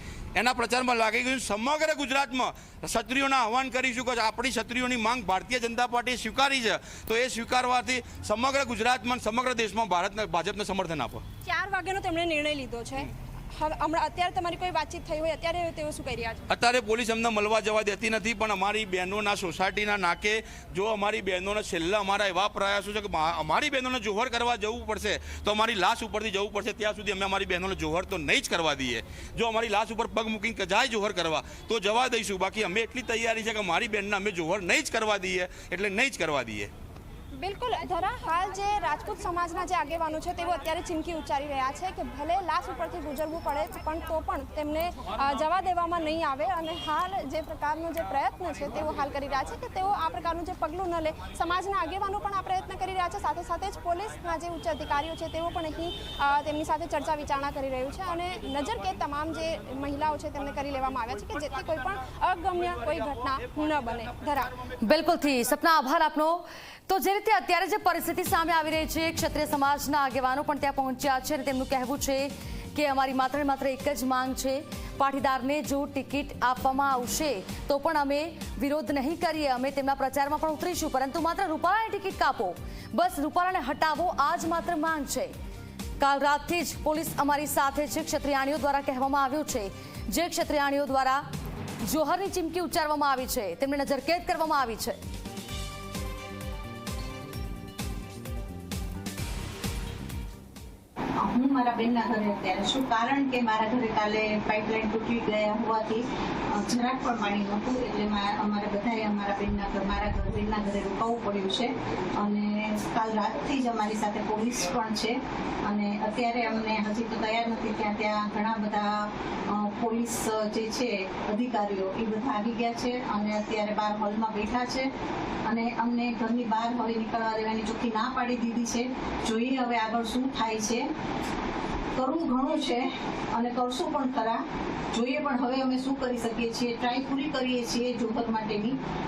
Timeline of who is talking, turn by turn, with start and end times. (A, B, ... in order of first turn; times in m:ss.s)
0:00.4-0:11.2 A
0:11.4-0:16.4 B
0:16.5-0:36.7 A
0:37.3-1:04.5 B
1:04.8-1:25.3 C
1:26.0-1:31.2 C
1:31.8-1:35.0 C
1:41.2-2:04.9 D
2:05.5-2:10.8 D
2:12.0-2:18.8 D